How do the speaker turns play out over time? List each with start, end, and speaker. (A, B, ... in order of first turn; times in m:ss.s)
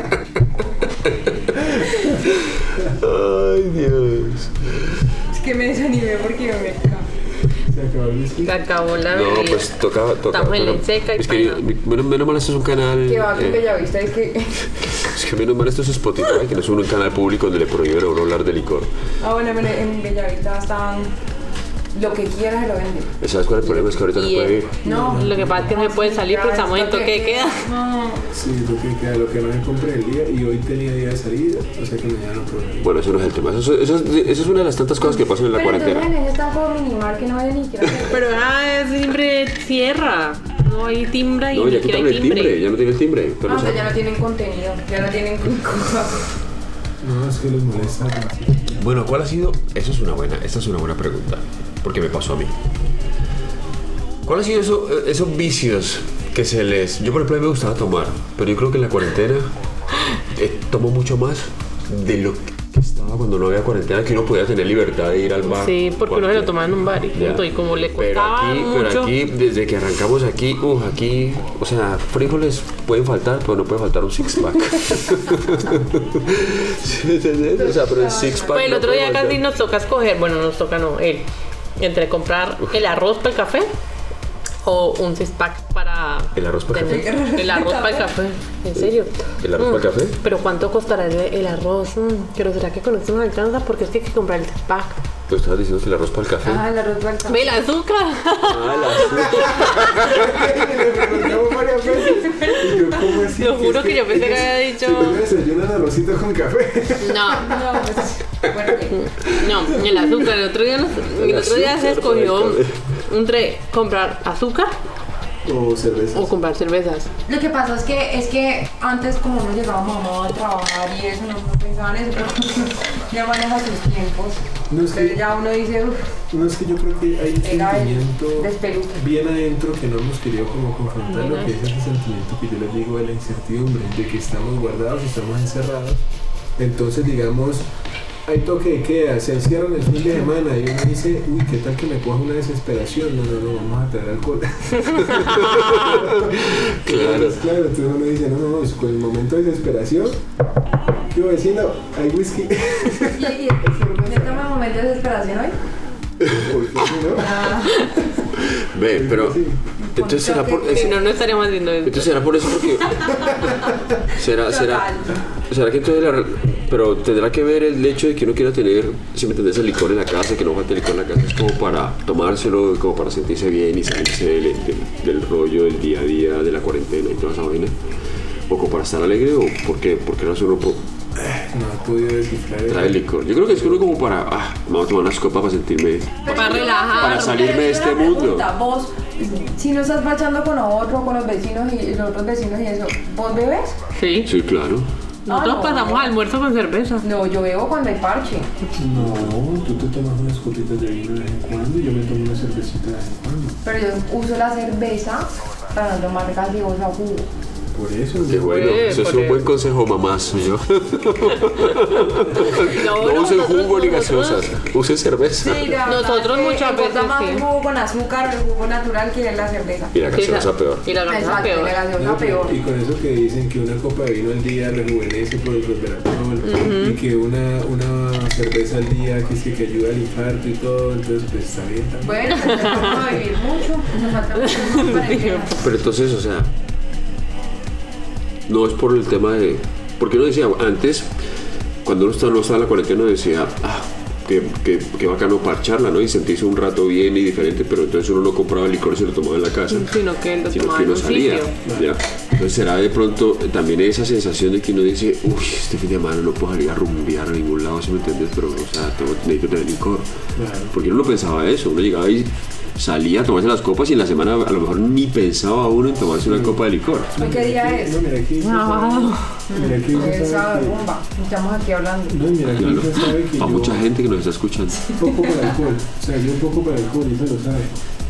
0:01.0-0:05.0 A
0:05.3-0:07.1 B
0:07.6-0:08.6 C
0:08.4-0:11.6 D
0:09.1-0:13.7 A
0:13.0-0:14.7 B
0:14.8-0:18.9 A
0:19.2-0:21.1 B
0:21.9-0:23.1 B
0:23.2-0:24.8 A
0:23.6-0:27.7 D
0:24.8-0:25.7 C
0:24.8-0:28.3 B
0:28.3-0:32.9 C
0:32.8-0:36.1 A
0:35.0-0:38.2 B
0:38.1-0:42.6 D
0:41.5-0:44.0 A
0:43.4-0:46.2 B
0:47.0-0:48.8 C
0:48.8-0:52.5 A
0:54.2-0:59.5 A
1:00.3-1:19.4 A
1:05.4-1:09.1 D
1:17.5-1:18.6 B
1:18.5-1:21.2 D
1:21.8-1:23.7 D
1:24.6-1:35.0 D
1:26.3-1:27.1 A
1:26.8-1:28.1 B
1:28.7-1:30.2 A
1:35.3-1:36.6 A
1:36.4-1:37.6 B
1:37.3-1:39.9 D
1:38.4-1:40.4 A
1:39.9-1:47.4 C
1:42.4-1:45.2 D
1:47.0-1:47.6 D
1:47.3-1:49.0 B
1:48.9-1:54.7 D
1:51.1-1:52.8 A
1:55.4-1:56.3 C
1:56.1-1:57.1 D
1:57.3-2:06.2 B
2:04.7-2:05.2 C
2:06.3-2:16.0 C
2:07.4-2:09.0 B
2:11.1-2:11.5 D
2:16.6-2:17.7 C
2:18.2-2:30.2 C
2:25.3-2:27.4 A
2:31.1-2:34.5 C
2:33.0-2:35.6 B
2:36.3-2:37.6 C
2:37.1-2:38.1 B
2:38.4-2:39.4 A
2:38.9-2:39.6 C
2:39.8-2:41.0 B
2:39.9-2:41.1 A
2:40.7-2:42.2 D
2:41.8-2:43.6 A
2:43.0-2:43.5 B
2:44.1-2:44.9 A
2:44.4-2:45.1 B
2:45.5-2:57.8 A
2:58.5-3:00.8 A
3:01.2-3:03.8 C
3:02.7-3:08.5 A
3:06.2-3:13.7 B
3:06.3-3:07.6 D
3:13.9-3:14.3 D
3:14.2-3:14.9 A
3:15.2-3:17.0 D
3:15.3-3:16.1 B
3:17.0-3:18.5 B
3:18.7-3:23.6 C
3:23.6-3:27.3 B
3:27.7-3:28.8 C
3:28.2-3:35.8 A
3:28.4-3:29.5 D
3:32.3-3:34.4 D
3:35.4-3:39.9 B
3:35.8-3:37.4 D
3:39.9-3:40.9 A
3:40.1-3:41.8 D
3:41.0-3:42.6 B
3:41.9-3:53.1 C
3:46.4-3:47.0 D
3:52.0-3:55.7 B
3:54.5-3:55.5 D
3:55.6-3:56.5 A
3:58.5-4:01.1 A
4:01.8-4:09.9 A
4:09.7-4:11.5 D
4:10.5-4:20.1 A
4:11.6-4:11.9 C
4:20.3-4:20.8 C
4:20.7-4:27.1 A
4:26.2-4:30.8 C
4:27.2-4:28.0 B
4:28.4-4:29.4 D
4:29.5-4:32.2 B
4:32.1-4:33.9 C
4:32.5-4:34.9 A
4:34.9-4:37.8 C
4:35.0-4:35.3 B